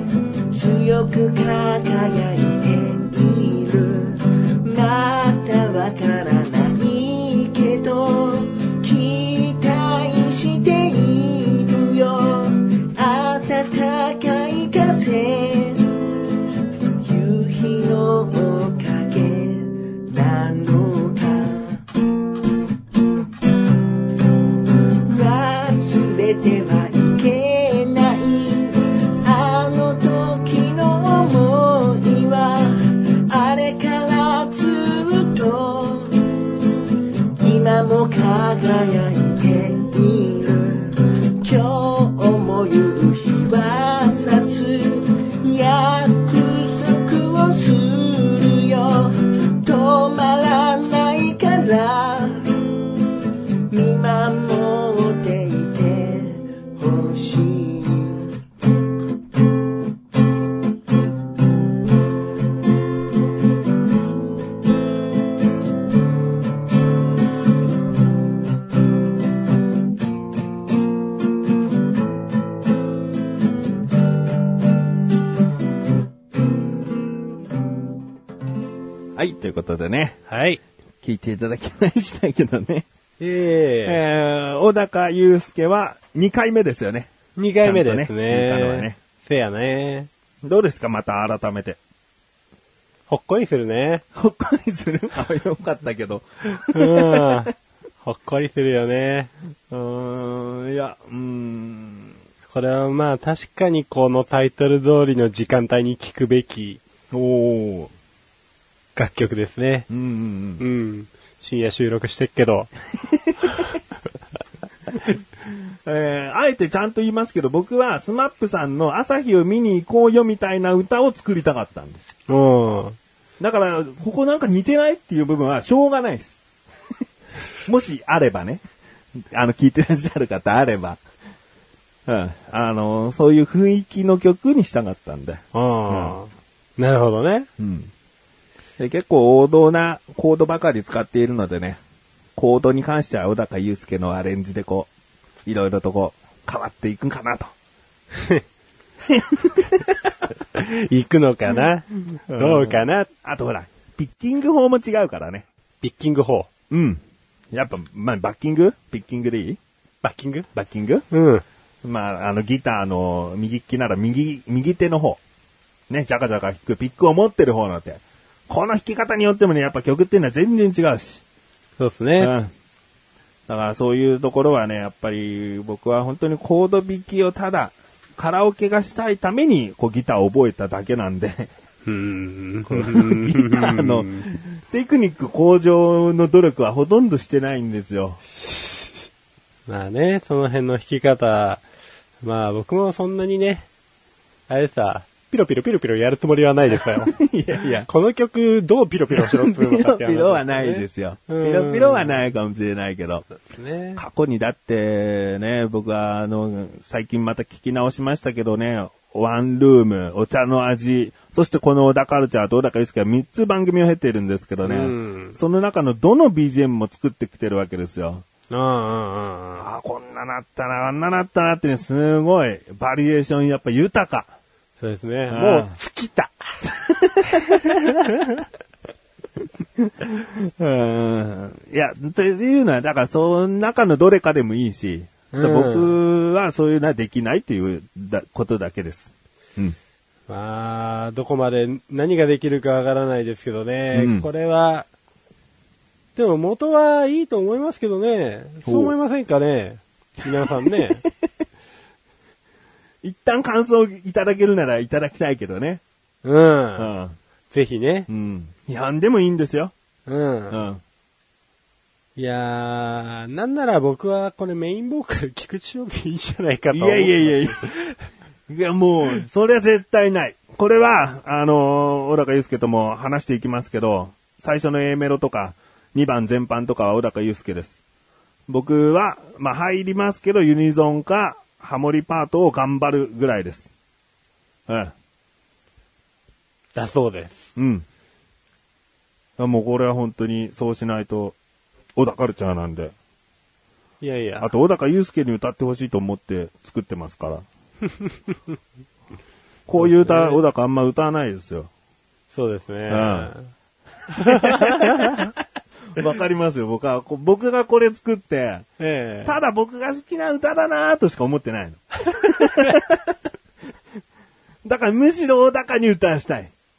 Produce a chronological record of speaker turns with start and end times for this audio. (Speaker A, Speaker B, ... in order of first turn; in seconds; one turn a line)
Speaker A: 0.5-15.9
Speaker A: 17.0-21.8
Speaker A: 25.0-36.2
Speaker A: 37.4-52.6
Speaker A: 53.7-58.3
Speaker B: 79.1-80.2
Speaker C: 80.3-80.6
Speaker B: 81.0-82.8
Speaker C: 83.2-84.0
Speaker B: 83.8-89.0
Speaker C: 87.4-90.1
Speaker B: 90.4-91.8
Speaker C: 93.1-94.0
Speaker B: 94.1-97.5
Speaker C: 96.6-99.3
Speaker B: 99.7-102.1
Speaker C: 102.5-106.8
Speaker B: 107.1-107.9
Speaker C: 109.0-109.9
Speaker B: 109.9-110.6
Speaker C: 110.6-112.7
Speaker B: 113.0-113.6
Speaker B: 115.5-122.1
Speaker C: 122.3-123.0
Speaker B: 123.4-126.3
Speaker B: 127.6-128.6
Speaker B: 129.1-131.0
Speaker B: 132.1-136.2
Speaker C: 135.5-137.5
Speaker B: 137.6-137.9
Speaker B: 138.8-141.8
Speaker B: 142.3-144.9
Speaker B: 145.4-147.5
Speaker C: 148.1-148.4
Speaker B: 149.0-149.9
Speaker C: 150.5-153.1
Speaker B: 152.3-155.4
Speaker C: 155.8-156.5
Speaker B: 156.7-157.0
Speaker B: 157.5-159.6
Speaker C: 160.0-160.5
Speaker B: 160.5-161.0
Speaker C: 161.1-161.4
Speaker B: 161.8-165.2
Speaker B: 165.9-171.2
Speaker C: 171.8-172.3
Speaker B: 172.2-172.5
Speaker B: 173.5-181.5
Speaker C: 181.8-184.2
Speaker B: 182.7-188.2
Speaker C: 189.7-191.6
Speaker C: 192.2-193.7
Speaker C: 194.5-197.2
Speaker B: 196.7-197.9
Speaker C: 197.8-202.2
Speaker B: 199.1-203.2
Speaker C: 203.4-204.0
Speaker B: 203.9-218.2
Speaker C: 214.6-215.3
Speaker C: 218.5-219.7
Speaker B: 219.6-224.3
Speaker C: 224.8-226.6
Speaker B: 225.3-225.7
Speaker B: 226.6-227.9
Speaker C: 227.3-228.4
Speaker B: 229.8-239.8
Speaker C: 235.3-235.9
Speaker C: 240.3-244.9
Speaker B: 243.9-244.3
Speaker C: 246.2-251.0
Speaker B: 248.6-248.9
Speaker B: 250.3-251.1
Speaker B: 253.0-255.8
Speaker C: 256.2-256.9
Speaker B: 256.8-257.2
Speaker C: 257.5-258.1
Speaker B: 258.1-259.7
Speaker C: 260.1-260.6
Speaker B: 260.5-260.8
Speaker C: 262.1-267.9
Speaker B: 266.7-267.7
Speaker B: 268.5-277.8
Speaker B: 278.5-283.7
Speaker B: 284.7-284.9
Speaker C: 286.7-287.5
Speaker B: 287.6-287.9
Speaker B: 289.4-291.4
Speaker B: 291.9-292.9
Speaker C: 294.0-294.5
Speaker B: 294.4-297.4
Speaker B: 299.7-301.7
Speaker C: 299.8-300.4
Speaker C: 302.3-303.5
Speaker B: 302.9-303.3
Speaker C: 304.1-305.3
Speaker B: 304.1-305.3
Speaker B: 305.9-308.7
Speaker C: 308.8-309.4
Speaker B: 309.2-313.1
Speaker B: 314.6-316.5